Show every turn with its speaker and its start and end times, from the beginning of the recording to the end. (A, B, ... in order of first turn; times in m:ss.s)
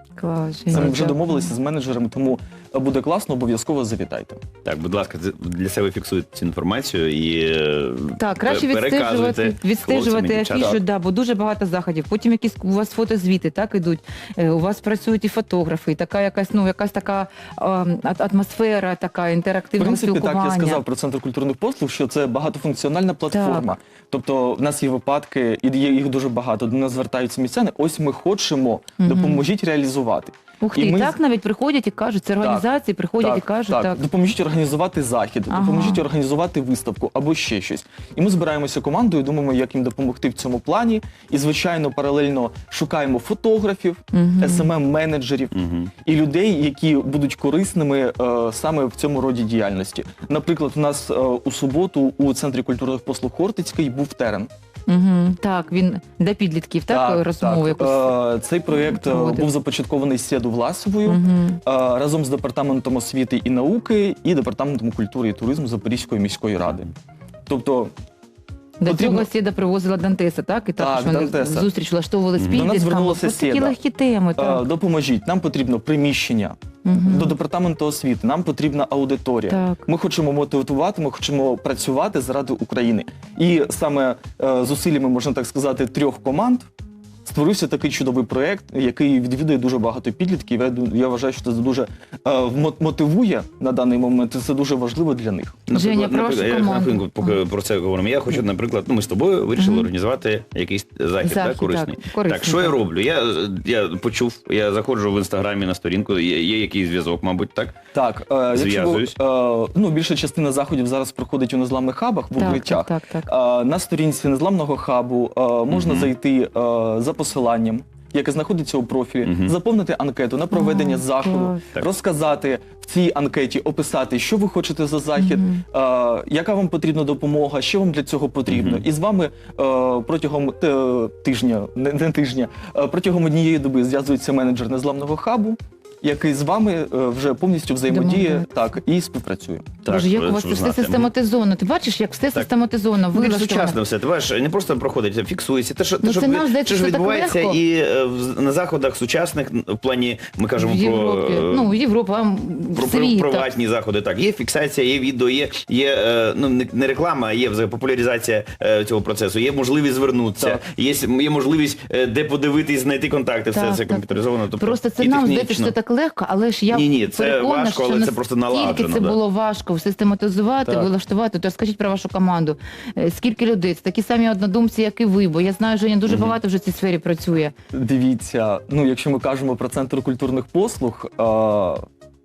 0:00.2-0:01.5 A
0:00.7-0:04.4 B
0:04.6-0:10.8 C
0:08.2-0:20.8 A
0:19.8-0:31.2 B
0:23.3-0:23.7 A
0:29.0-0:29.4 A
0:30.6-0:34.0 A
0:33.2-0:54.5 B
0:35.5-0:36.0 A
0:44.1-0:44.7 A
0:45.6-0:45.9 C
0:54.9-0:59.5 A
0:56.9-1:06.9 B
1:01.0-1:01.6 A
1:07.5-1:07.9 B
1:08.8-1:14.6 A
1:08.8-1:09.3 B
1:10.8-1:11.7 B
1:12.4-1:12.7 C
1:12.5-1:13.8 B
1:14.4-1:26.7 B
1:16.8-1:17.4 A
1:19.5-1:19.8 A
1:27.3-1:35.6 B
1:35.7-1:47.8 C
1:35.7-1:37.4 A
1:39.6-1:39.9 A
1:41.2-1:42.8 A
1:47.9-2:19.8 B
1:48.5-1:49.2 C
1:52.4-1:53.3 A
1:55.7-1:56.1 C
1:59.2-1:59.5 C
2:00.5-2:01.6 A
2:05.2-2:05.6 A
2:08.5-2:08.8 C
2:17.9-2:18.6 A
2:19.8-2:21.1 C
2:19.9-2:23.8 A
2:23.1-2:31.8 C
2:26.0-2:27.6 A
2:30.6-2:33.5 A
2:32.8-2:45.7 C
2:40.4-2:40.6 B
2:43.5-2:57.5 A
2:46.7-2:49.2 C
2:50.7-2:50.9 B
2:56.1-2:56.4 C
2:57.7-3:01.8 B